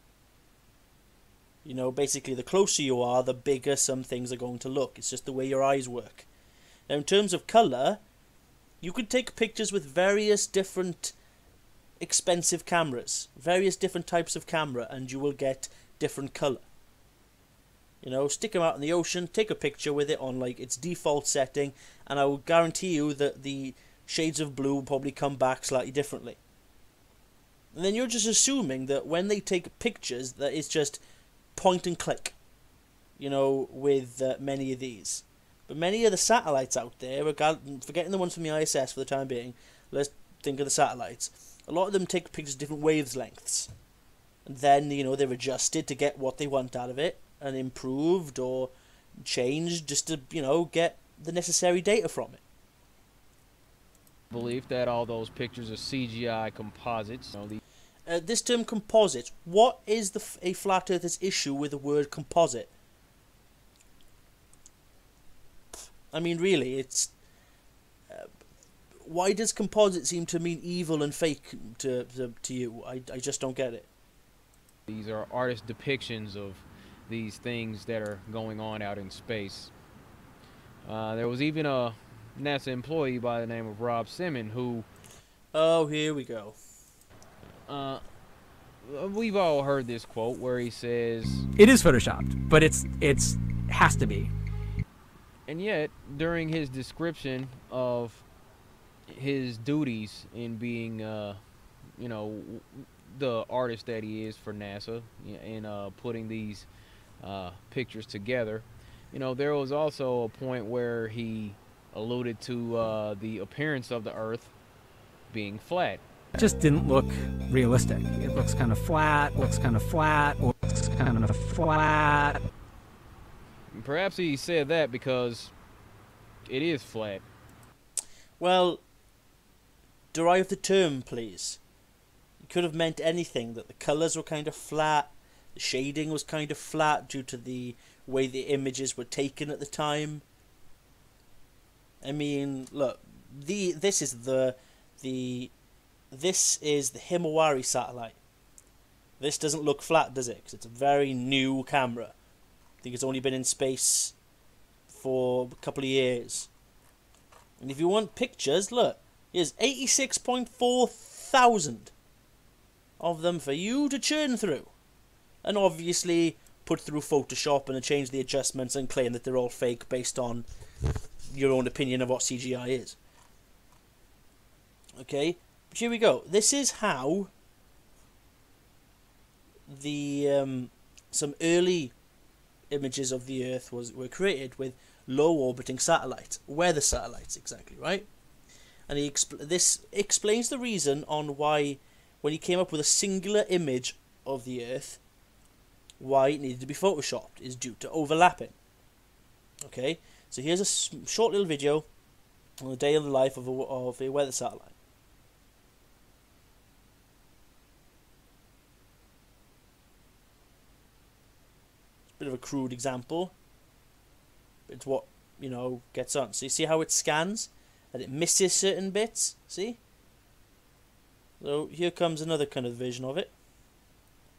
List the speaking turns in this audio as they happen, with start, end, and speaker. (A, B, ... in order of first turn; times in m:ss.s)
0:01.6-0:06.3 A
0:06.9-0:08.0 A
0:08.8-0:11.1 A
0:12.0-0:16.6 A
0:18.0-0:26.4 A
0:27.7-0:31.0 A
0:31.5-0:32.4 A
0:33.2-0:43.7 A
0:44.4-0:52.4 A
0:54.3-0:57.6 B
0:58.0-1:02.7 A
1:06.1-1:07.1 A
1:09.0-1:13.9 A
1:14.9-1:19.7 B
1:20.8-1:24.8 B
1:25.5-1:26.6 A
1:27.7-1:28.0 B
1:28.8-1:31.5 B
1:31.6-1:34.3 C
1:35.5-1:38.2 B
1:39.1-1:41.4 B
1:42.0-1:46.7 B
1:47.2-1:54.5 B
1:55.3-1:56.0 B
1:56.4-2:02.4 C
2:03.7-2:05.5 B
2:06.5-2:07.2 B
2:08.4-2:08.8 A
2:10.1-2:11.6 A
2:12.4-2:20.2 A
2:22.0-2:25.5 A
2:26.1-2:28.2 A
2:29.2-2:32.1 A
2:32.8-2:34.1 A
2:34.9-2:36.5 A
2:37.6-2:41.9 A
2:43.0-2:44.7 A
2:45.4-2:50.4 A
2:51.2-2:53.0 A
2:55.0-2:57.3 A
2:59.7-3:01.9 A
3:02.7-3:08.1 A
3:08.9-3:15.0 A
3:16.0-3:18.5 A
3:19.6-3:21.9 A
3:22.6-3:24.7 A
3:32.2-3:33.3 A
3:34.7-3:39.8 A
3:41.4-3:43.3 A